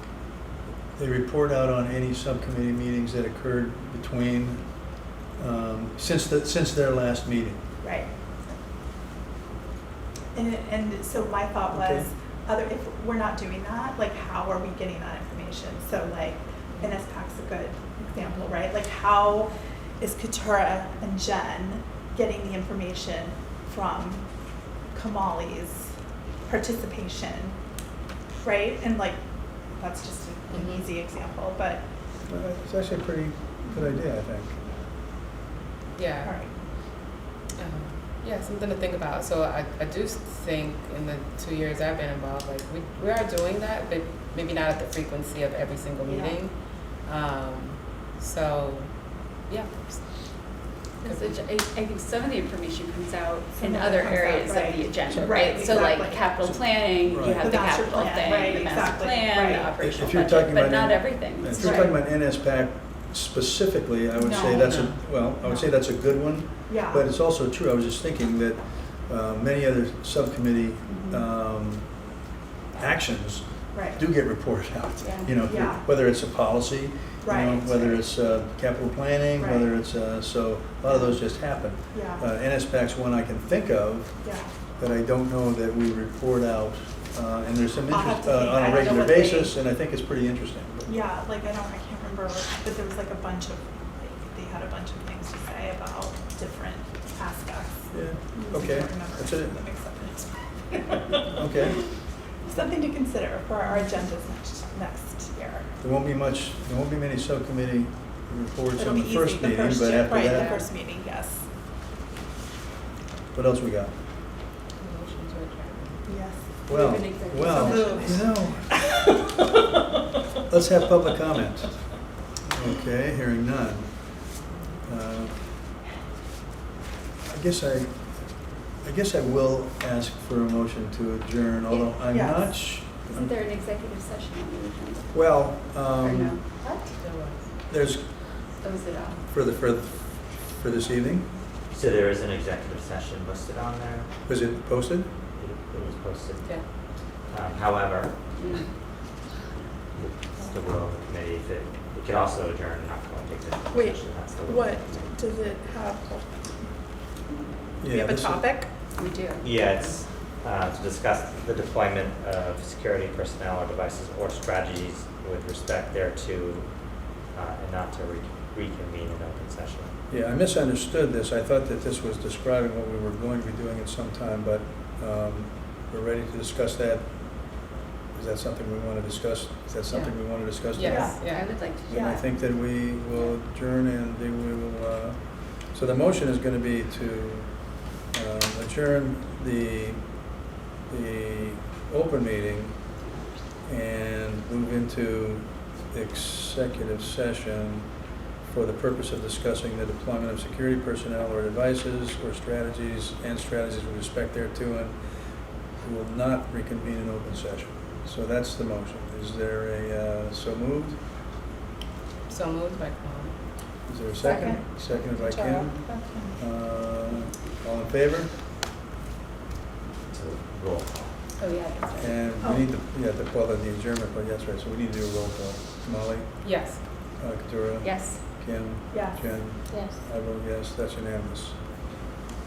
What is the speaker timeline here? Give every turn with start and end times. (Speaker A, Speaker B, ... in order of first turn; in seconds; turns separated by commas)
Speaker A: 1.0-4.8, Speaker A: 5.3-7.6, Speaker B: 7.8-8.6, Speaker B: 10.3-24.3, Speaker A: 11.7-12.1, Speaker B: 24.9-25.9, Speaker B: 26.5-27.6, Speaker B: 28.4-29.2, Speaker B: 29.8-31.8, Speaker C: 30.5-30.8, Speaker A: 32.3-34.6, Speaker C: 36.0-36.6, Speaker B: 36.2-36.5, Speaker C: 37.6-51.4, Speaker B: 46.1-46.4, Speaker D: 51.0-61.9, Speaker B: 53.5-56.2, Speaker A: 56.4-57.5, Speaker B: 57.3-59.7, Speaker A: 59.8-72.1, Speaker B: 61.5-62.0, Speaker B: 64.2-65.7, Speaker B: 66.7-67.1, Speaker B: 70.9-71.2, Speaker A: 72.8-90.9, Speaker B: 73.7-74.0, Speaker D: 75.0-75.3, Speaker B: 75.4-75.8, Speaker B: 77.2-78.0, Speaker B: 79.4-79.7, Speaker B: 81.9-82.3, Speaker B: 84.2-84.5, Speaker B: 87.9-89.5, Speaker B: 90.9-101.1, Speaker A: 97.9-99.7, Speaker A: 101.3-101.8, Speaker B: 102.4-105.7, Speaker A: 105.8-110.6, Speaker B: 108.8-111.5, Speaker A: 113.3-113.9, Speaker C: 114.8-116.1, Speaker B: 116.1-116.5, Speaker A: 116.7-119.0, Speaker D: 116.7-118.2, Speaker B: 117.5-118.6, Speaker A: 120.5-124.3, Speaker A: 124.8-125.5, Speaker A: 127.3-133.3, Speaker B: 132.1-132.5, Speaker D: 133.0-135.2, Speaker A: 135.1-136.4, Speaker D: 136.0-136.8, Speaker C: 136.9-137.5, Speaker A: 137.7-138.1, Speaker D: 138.6-139.2, Speaker A: 139.3-141.3, Speaker E: 141.7-144.1, Speaker A: 144.3-145.1, Speaker E: 145.3-148.2, Speaker D: 148.4-148.7, Speaker E: 150.0-155.2, Speaker B: 153.7-156.3, Speaker A: 157.8-158.6, Speaker B: 157.8-158.7, Speaker D: 158.9-159.5, Speaker E: 159.4-169.9, Speaker A: 170.1-190.3, Speaker C: 179.9-181.6, Speaker B: 180.8-181.2, Speaker D: 181.2-182.1, Speaker B: 181.9-182.3, Speaker A: 190.9-192.8, Speaker A: 193.7-197.9, Speaker A: 198.4-211.0, Speaker C: 212.3-213.4, Speaker A: 213.9-218.4, Speaker B: 214.2-216.4, Speaker E: 220.1-221.2, Speaker D: 221.4-222.2, Speaker A: 222.0-231.6, Speaker B: 222.4-222.7, Speaker C: 226.4-226.8, Speaker D: 227.8-228.2, Speaker B: 228.9-229.2